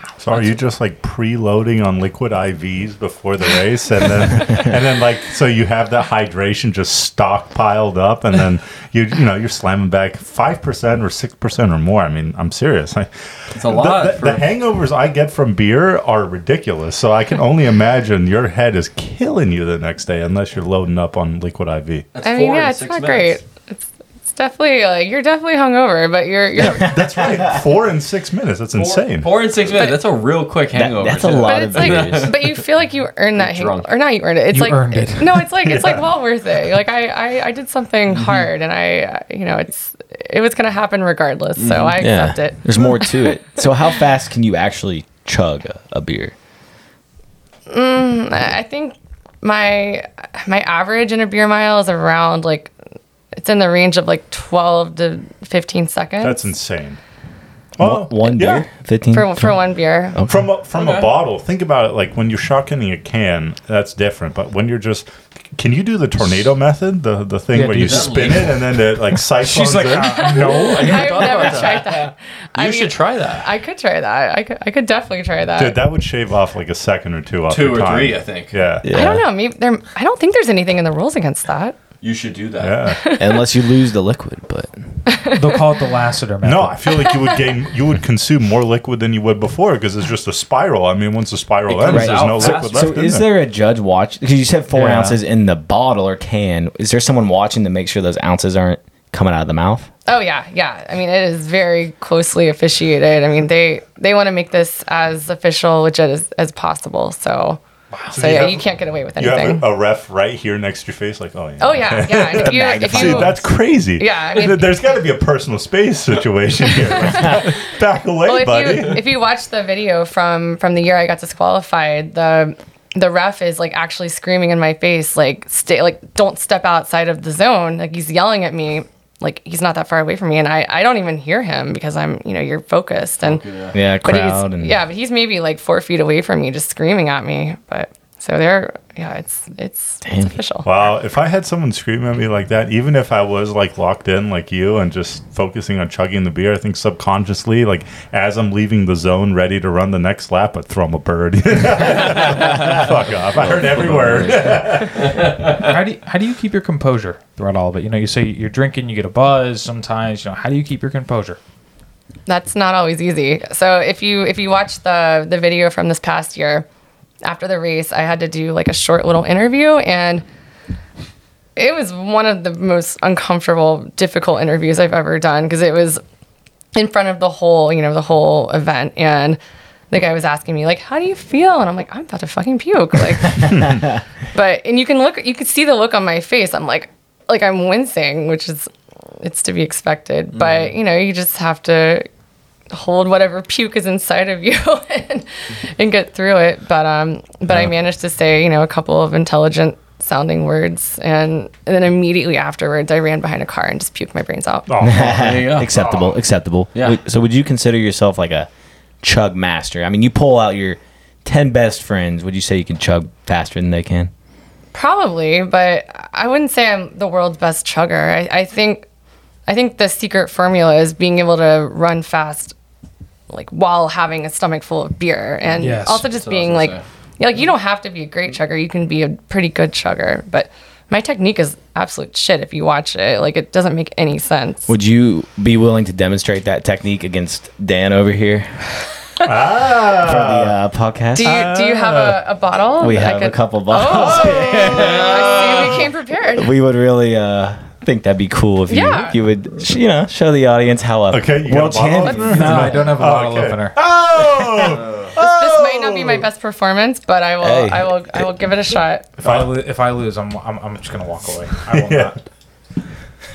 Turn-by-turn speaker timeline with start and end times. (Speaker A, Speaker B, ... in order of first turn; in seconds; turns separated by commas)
Speaker A: 0.2-22.1, Speaker B: 13.5-14.5, Speaker B: 22.1-23.4, Speaker C: 22.2-27.0, Speaker A: 26.6-29.3, Speaker D: 27.0-27.6, Speaker B: 28.7-32.4, Speaker C: 29.8-30.0, Speaker D: 30.7-32.4, Speaker C: 31.4-43.3, Speaker B: 33.4-33.9, Speaker E: 34.5-35.5, Speaker A: 35.6-36.0, Speaker B: 41.6-42.0, Speaker D: 42.0-46.3, Speaker C: 47.7-52.7, Speaker C: 53.3-56.5, Speaker A: 56.2-57.0, Speaker A: 57.8-58.6, Speaker D: 57.8-59.6, Speaker C: 59.1-60.2, Speaker D: 60.1-60.5, Speaker A: 60.2-70.8, Speaker B: 60.7-61.1, Speaker E: 67.5-68.1, Speaker B: 67.8-68.6, Speaker E: 69.5-70.9, Speaker C: 70.0-75.8, Speaker B: 70.4-73.5, Speaker A: 75.6-78.9, Speaker B: 77.5-78.5, Speaker D: 78.8-79.2, Speaker C: 78.9-81.8, Speaker B: 82.0-82.8, Speaker A: 82.6-83.0, Speaker C: 82.9-83.5, Speaker D: 83.2-84.8, Speaker C: 85.0-85.5, Speaker E: 85.3-87.0, Speaker A: 86.4-93.2, Speaker C: 87.0-87.3, Speaker B: 91.7-93.1, Speaker D: 91.8-99.9, Speaker E: 94.7-95.2, Speaker C: 100.1-107.6, Speaker E: 107.9-108.2, Speaker A: 108.1-108.7, Speaker C: 108.1-109.6, Speaker A: 109.2-119.0, Speaker C: 111.6-113.4, Speaker D: 112.3-113.4, Speaker C: 114.0-114.7, Speaker C: 117.1-117.5, Speaker C: 118.2-133.4, Speaker B: 133.2-133.8, Speaker D: 133.7-134.8, Speaker C: 134.0-140.7, Speaker D: 140.0-140.3, Speaker A: 140.6-155.2, Speaker D: 153.4-154.6, Speaker B: 154.9-155.7, Speaker E: 155.5-161.4, Speaker C: 162.3-166.7, Speaker C: 167.2-170.2, Speaker C: 171.6-176.0, Speaker C: 176.7-179.4, Speaker C: 179.9-192.1, Speaker A: 183.5-183.8, Speaker B: 190.3-190.7, Speaker C: 192.7-204.8, Speaker A: 204.7-206.1, Speaker D: 204.8-208.5, Speaker B: 205.0-205.8, Speaker D: 209.0-214.1, Speaker C: 214.7-218.8, Speaker C: 219.5-222.5, Speaker C: 223.3-234.7, Speaker E: 225.6-226.1, Speaker B: 226.0-226.8, Speaker D: 234.7-238.6, Speaker A: 239.2-240.5, Speaker D: 239.9-241.5, Speaker C: 241.1-246.5, Speaker A: 241.2-242.2, Speaker D: 242.8-245.6, Speaker B: 244.6-245.8, Speaker D: 246.3-252.8, Speaker C: 248.7-249.2, Speaker A: 251.1-256.2, Speaker E: 252.2-253.8, Speaker C: 255.2-259.1, Speaker D: 257.4-258.3, Speaker E: 259.2-262.1, Speaker A: 259.2-259.5, Speaker A: 261.7-262.1